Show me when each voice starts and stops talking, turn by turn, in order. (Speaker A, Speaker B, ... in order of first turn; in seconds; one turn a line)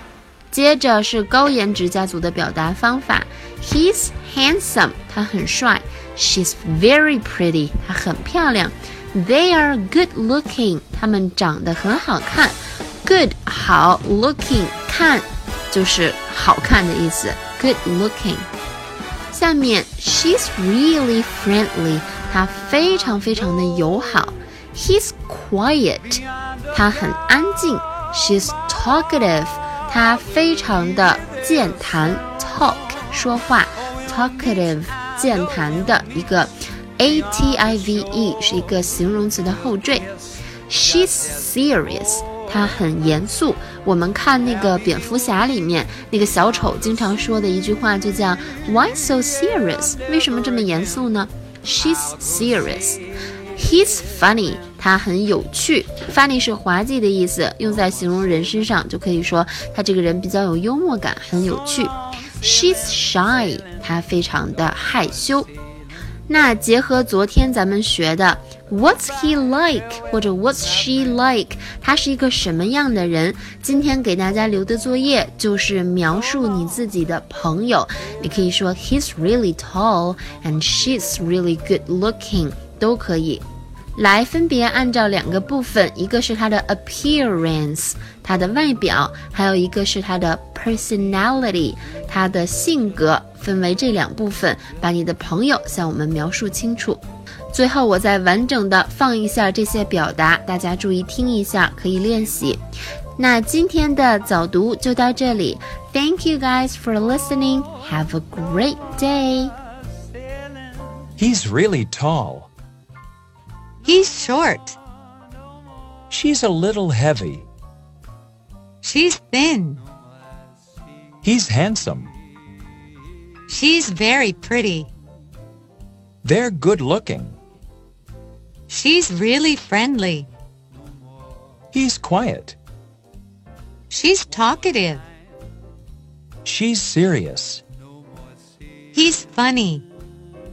Speaker A: 0.5-18.5
Speaker A: 19.3-40.1
Speaker A: 40.7-53.0
Speaker A: 53.6-65.5
Speaker A: 66.3-83.4
Speaker A: 84.0-102.6
Speaker A: 103.2-109.5
Speaker B: 111.2-112.5
Speaker C: 113.8-114.8
Speaker B: 116.1-117.5
Speaker C: 118.8-119.8
Speaker B: 121.2-122.1
Speaker C: 123.5-124.9
Speaker B: 126.2-127.4
Speaker C: 128.7-130.3
Speaker B: 131.7-132.6
Speaker C: 133.9-135.1
Speaker B: 136.4-137.6
Speaker C: 138.9-139.8